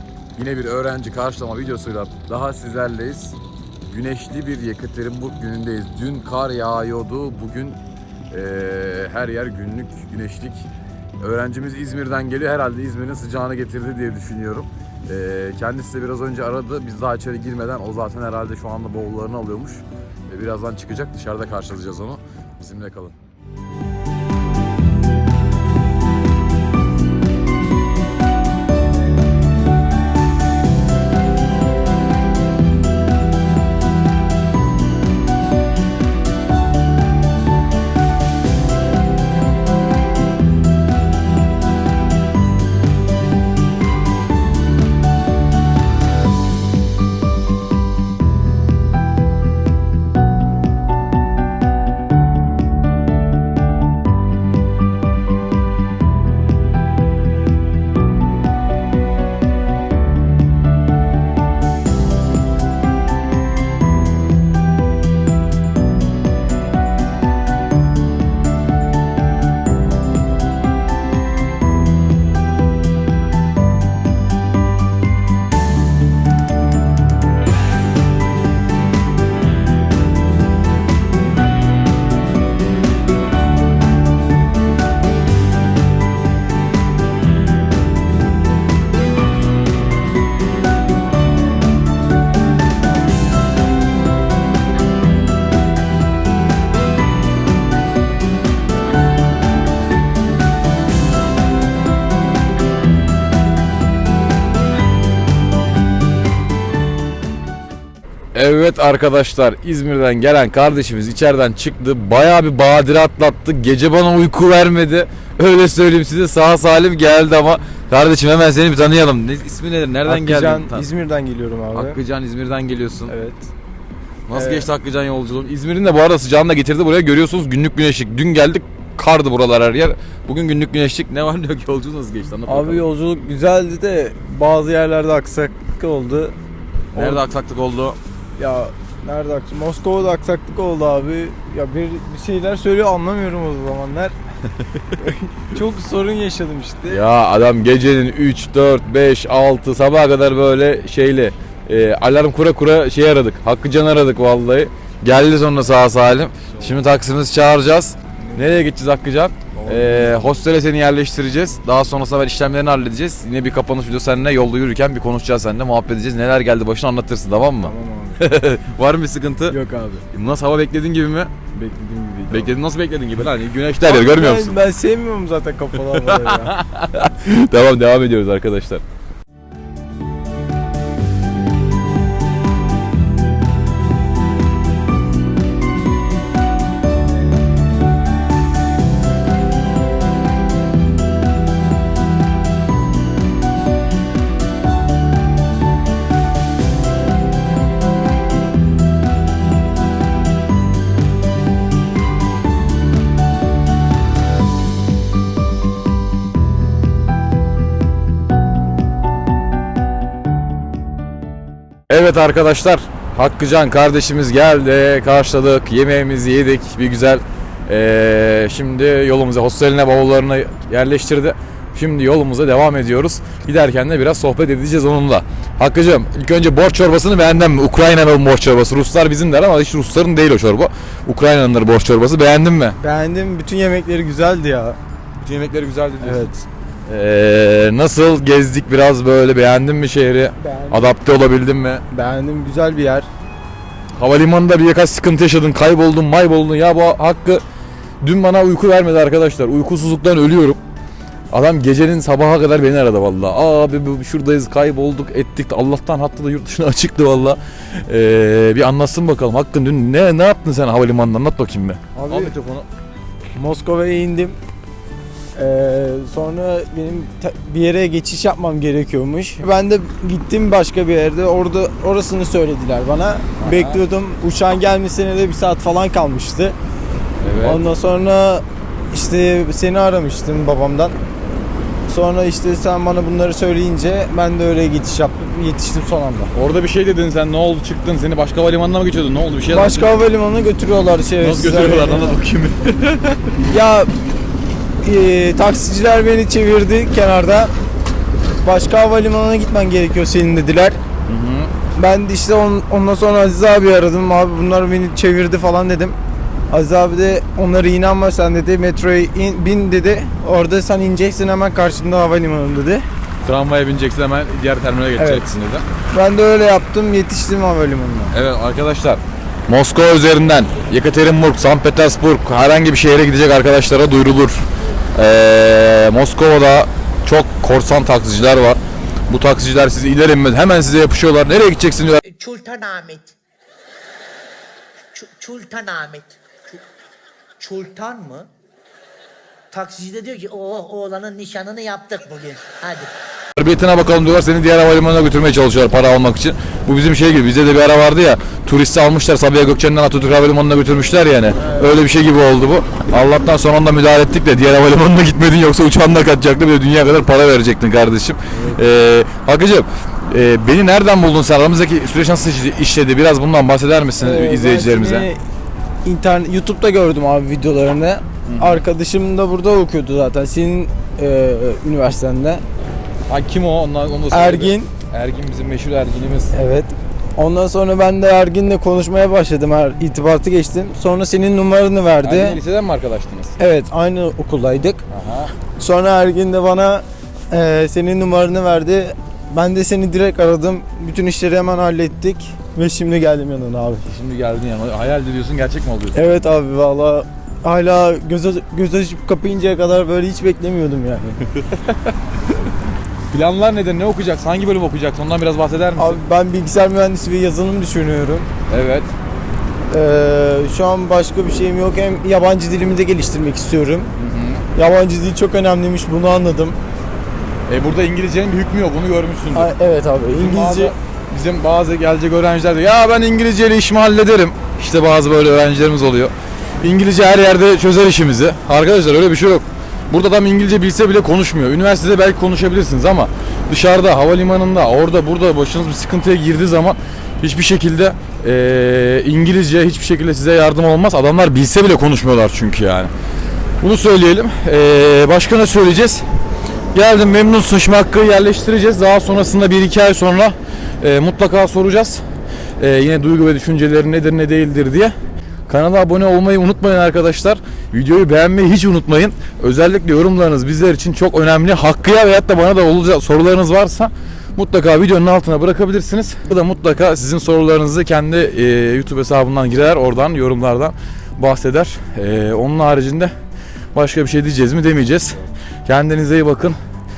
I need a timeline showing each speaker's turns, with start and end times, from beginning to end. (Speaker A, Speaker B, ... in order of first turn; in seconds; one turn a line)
Speaker A: 0.4-7.8
Speaker A: 8.3-10.7
Speaker A: 11.2-23.1
Speaker A: 108.3-120.9
Speaker B: 120.1-122.0
Speaker A: 121.7-123.1
Speaker B: 123.1-123.5
Speaker A: 124.3-132.8
Speaker B: 124.3-124.7
Speaker B: 132.5-136.4
Speaker A: 136.9-138.0
Speaker B: 136.9-137.2
Speaker B: 138.4-144.1
Speaker B: 145.0-147.0
Speaker A: 146.9-169.6
Speaker B: 159.6-160.2
Speaker B: 167.6-168.2
Speaker B: 169.5-170.0
Speaker A: 170.1-171.3
Speaker B: 171.5-172.5
Speaker A: 172.3-174.6
Speaker B: 173.8-176.6
Speaker A: 175.8-178.8
Speaker A: 211.9-232.8
Speaker B: 232.8-234.8
Speaker A: 235.2-236.3
Speaker B: 236.0-236.4
Speaker A: 236.9-241.8
Speaker B: 240.4-241.0
Speaker B: 241.9-243.1
Speaker A: 244.0-247.4
Speaker A: 248.0-250.6
Speaker A: 251.3-262.7
Speaker B: 261.9-262.3
Speaker B: 263.4-264.4
Speaker B: 265.4-276.6
Speaker A: 273.4-273.8
Speaker A: 277.2-277.6
Speaker B: 277.4-281.0
Speaker B: 281.9-286.3
Speaker A: 286.3-289.9
Speaker B: 289.5-292.1
Speaker A: 291.2-293.3
Speaker B: 293.5-293.9
Speaker B: 294.8-297.5
Speaker B: 298.4-300.8
Speaker A: 301.1-301.5
Speaker B: 301.8-306.0
Speaker B: 306.5-312.8
Speaker A: 313.2-315.7
Speaker B: 315.0-315.3
Speaker B: 315.9-318.1
Speaker A: 318.1-324.4
Speaker A: 324.9-332.0
Speaker C: 332.1-333.1
Speaker C: 334.9-336.6
Speaker C: 337.4-338.3
Speaker C: 339.5-342.9
Speaker A: 343.4-365.1
Speaker B: 364.0-365.2
Speaker B: 365.8-372.4
Speaker A: 368.3-368.6
Speaker A: 373.1-376.4
Speaker B: 374.1-374.7
Speaker B: 376.3-382.4
Speaker A: 382.0-383.4
Speaker B: 383.4-384.8
Speaker A: 384.9-385.4
Speaker B: 385.6-393.9
Speaker A: 393.9-396.0
Speaker B: 395.9-401.2
Speaker A: 403.1-406.0
Speaker B: 405.8-408.3
Speaker A: 408.5-408.9
Speaker B: 409.7-413.9
Speaker A: 414.0-414.4
Speaker B: 414.6-416.6
Speaker A: 417.5-419.5
Speaker B: 419.3-420.8
Speaker A: 420.1-442.9
Speaker A: 443.6-446.1
Speaker A: 446.7-452.0
Speaker A: 452.6-454.9
Speaker A: 455.5-473.1
Speaker A: 473.7-476.6